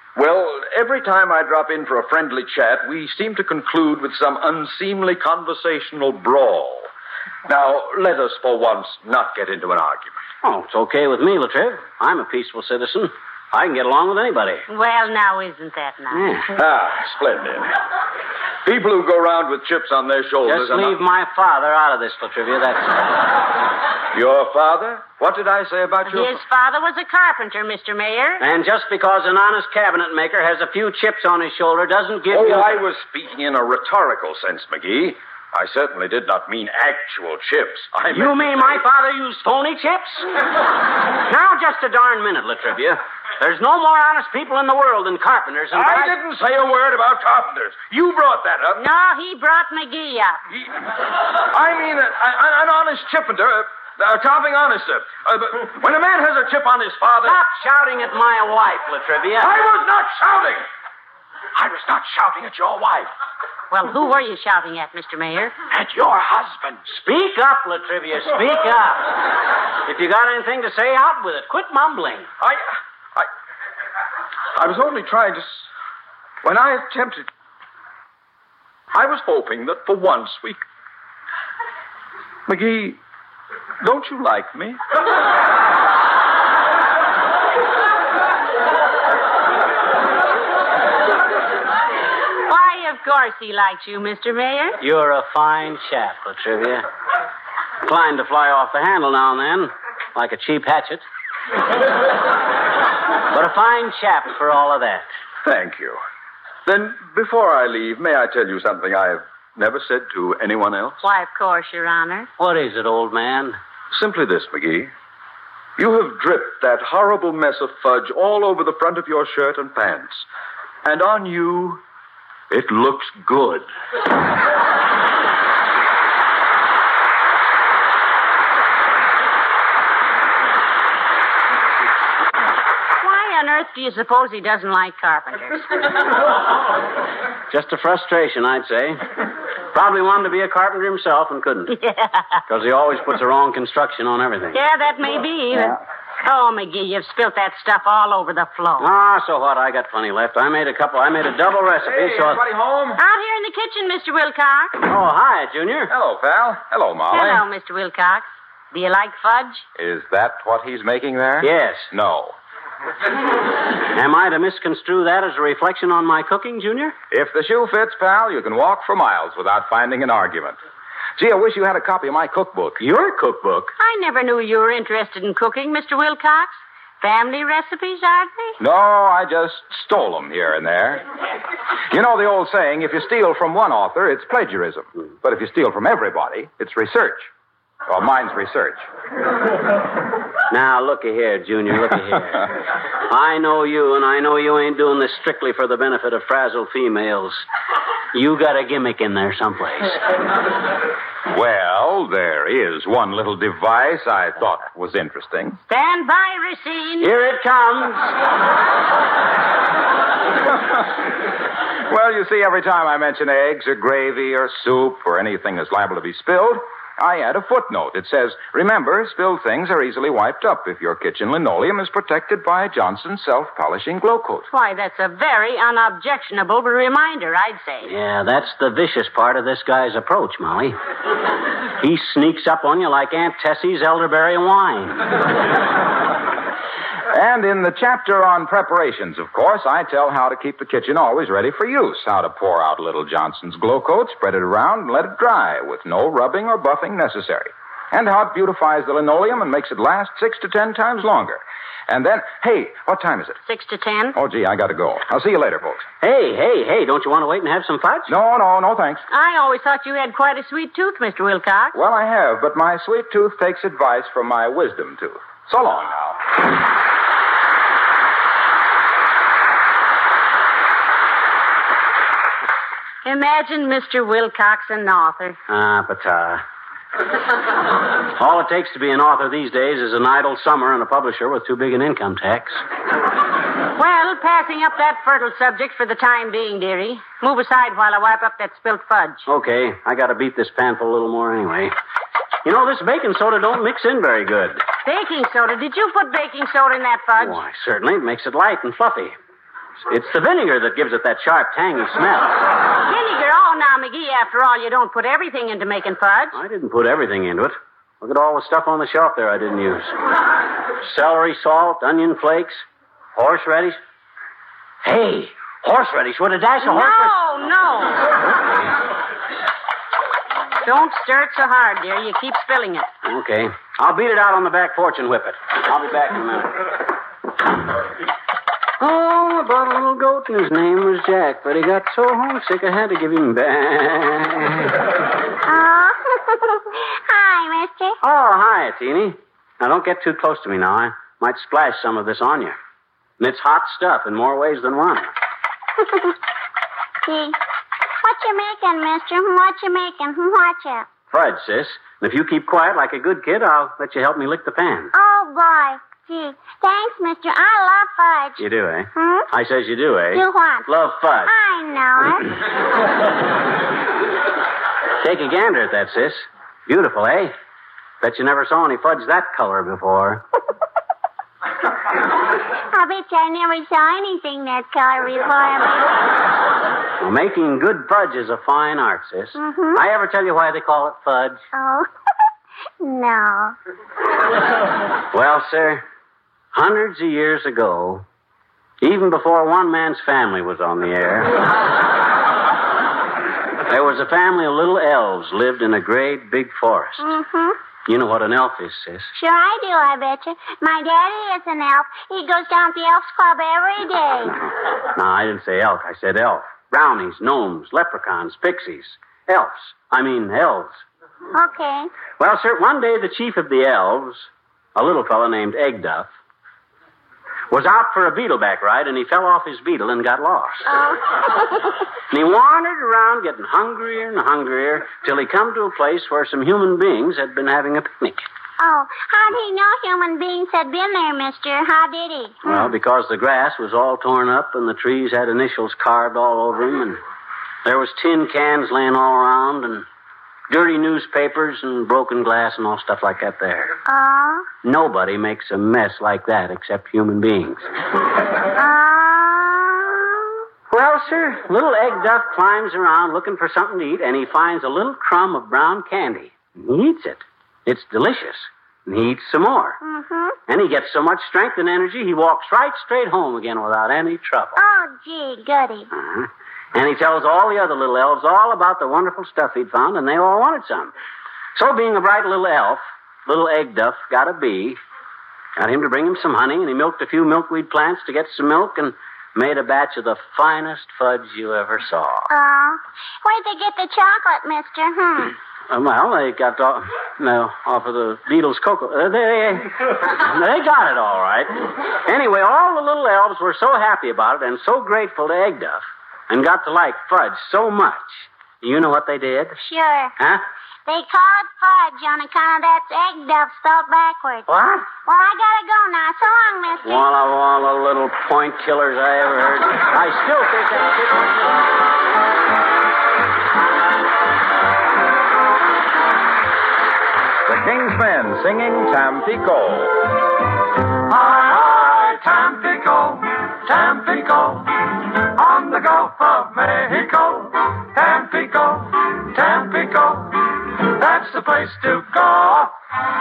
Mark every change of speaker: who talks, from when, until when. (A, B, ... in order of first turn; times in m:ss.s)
0:00.2-0:01.3 A
0:01.8-0:06.6 A
0:07.7-0:09.4 A
0:10.4-0:14.7 B
0:14.7-0:16.3 C
0:16.1-0:16.5 B
0:16.8-0:17.6 A
0:18.7-0:20.9 A
0:20.4-0:23.3 B
0:20.5-0:20.8 D
0:25.5-0:26.2 A
0:26.0-0:28.4 C
0:28.4-0:32.8 B
0:32.3-0:33.6 D
0:33.7-0:34.8 A
0:36.2-0:37.5 A
0:37.8-0:38.4 D
0:38.1-0:40.3 B
0:41.2-0:46.2 B
0:45.8-0:46.5 D
0:46.5-0:48.5 A
0:48.8-0:50.4 C
0:51.8-0:52.2 A
0:53.1-0:53.4 A
0:54.2-0:55.3 A
0:55.5-0:55.9 D
0:56.0-0:57.1 A
0:57.2-0:59.6 B
0:59.4-1:00.2 D
0:59.4-1:00.5 A
1:01.6-1:03.0 D
1:03.7-1:05.6 C
1:05.8-1:06.8 D
1:06.9-1:09.2 B
1:09.8-1:12.3 B
1:14.6-1:15.4 A
1:16.5-1:17.2 A
1:19.0-1:20.6 A
1:22.5-1:23.0 A
1:23.8-1:24.8 A
1:32.5-1:34.8 C
1:34.8-1:36.9 B
1:37.8-1:41.0 B
1:43.3-1:45.1 B
1:45.5-1:46.0 A
1:46.7-1:51.0 A
1:51.0-1:52.3 C
1:52.4-1:53.6 B
1:54.0-1:54.9 A
1:55.8-2:00.2 A
2:00.9-2:01.8 A
2:02.5-2:03.6 A
2:13.0-2:15.8 C
2:17.5-2:19.1 B
2:19.7-2:21.7 B
2:21.7-2:22.3 C
2:22.5-2:24.6 B
2:24.5-2:28.9 C
2:28.8-2:32.4 B
2:31.8-2:33.0 D
2:33.0-2:34.8 C
2:34.8-2:35.9 B
2:35.9-2:37.4 D
2:37.1-2:39.6 C
2:39.8-2:42.4 D
2:41.4-2:41.9 B
2:43.8-2:47.0 B
2:47.1-2:50.6 D
2:51.2-2:52.8 D
2:52.8-2:53.7 B
2:53.8-2:58.6 C
2:58.6-3:01.0 D
3:01.9-3:07.3 D
3:07.9-3:08.8 D
3:10.5-3:12.5 B
3:13.1-3:17.5 B
3:18.1-3:20.0 B
3:21.3-3:25.6 D
3:25.7-3:27.1 C
3:27.0-3:28.1 B
3:31.9-3:44.5 D
3:44.5-3:47.9 C
3:47.8-3:50.8 B
3:51.8-3:55.1 B
3:57.1-4:13.4 D
4:13.5-4:14.2 C
4:14.2-4:15.8 D
4:16.0-4:18.1 B
4:18.1-4:19.0 D
4:19.1-4:21.8 C
4:21.8-4:26.2 D
4:33.0-4:35.4 C
4:35.5-4:36.4 B
4:38.1-4:42.6 B
4:43.8-4:49.3 C
4:49.3-4:51.7 B
4:52.4-4:54.6 B
4:54.8-4:57.4 C
4:57.2-4:59.2 B
4:59.9-5:02.5 B
5:02.8-5:06.4 C
5:06.3-5:10.0 B
5:10.8-5:13.8 B
5:14.8-5:17.2 B
5:16.6-5:18.1 C
5:20.6-5:22.9 C
5:23.0-5:26.7 B
5:28.8-5:34.7 B
5:35.4-5:38.0 E
5:38.0-5:42.6 B
5:43.2-5:45.1 B
5:45.8-5:46.1 E
5:47.0-5:47.4 E
5:48.0-5:50.9 E
5:51.1-5:54.9 B
5:54.9-5:58.4 E
5:58.4-6:01.3 B
5:59.0-5:59.3 E
6:00.1-6:00.7 E
6:01.2-6:02.3 E
6:05.0-6:07.4 B
6:08.0-6:10.2 B
6:12.7-6:15.9 E
6:17.0-6:21.4 B
6:19.4-6:19.8 E
6:21.5-6:21.9 E
6:22.8-6:23.6 E
6:25.1-6:25.8 B
6:26.5-6:28.0 B
6:28.8-6:31.4 B
6:33.7-6:37.1 B
6:37.0-6:37.6 E
6:37.9-6:39.1 B
6:39.2-6:44.4 E
6:44.9-6:50.8 B
6:51.3-6:51.9 E
6:52.2-6:56.1 B
6:57.5-7:00.7 B
7:00.7-7:01.7 E
7:02.1-7:08.3 B
7:08.6-7:12.7 E
7:12.4-7:17.0 B
7:17.6-7:19.9 B
7:20.5-7:23.8 B
7:23.9-7:24.5 E
7:24.6-7:27.7 B
7:28.6-7:30.2 E
7:30.7-7:39.8 B
7:39.8-7:40.4 E
7:40.5-7:44.6 B
7:44.6-7:45.9 E
7:45.9-7:50.9 B
7:51.6-7:54.8 B
7:55.6-8:02.3 B
8:02.3-8:05.3 E
8:05.7-8:19.6 B
8:19.6-8:20.1 E
8:20.2-8:20.4 B
8:20.9-8:27.1 E
8:24.5-8:25.0 B
8:26.8-8:31.6 B
8:37.5-8:40.0 D
8:41.1-8:52.7 F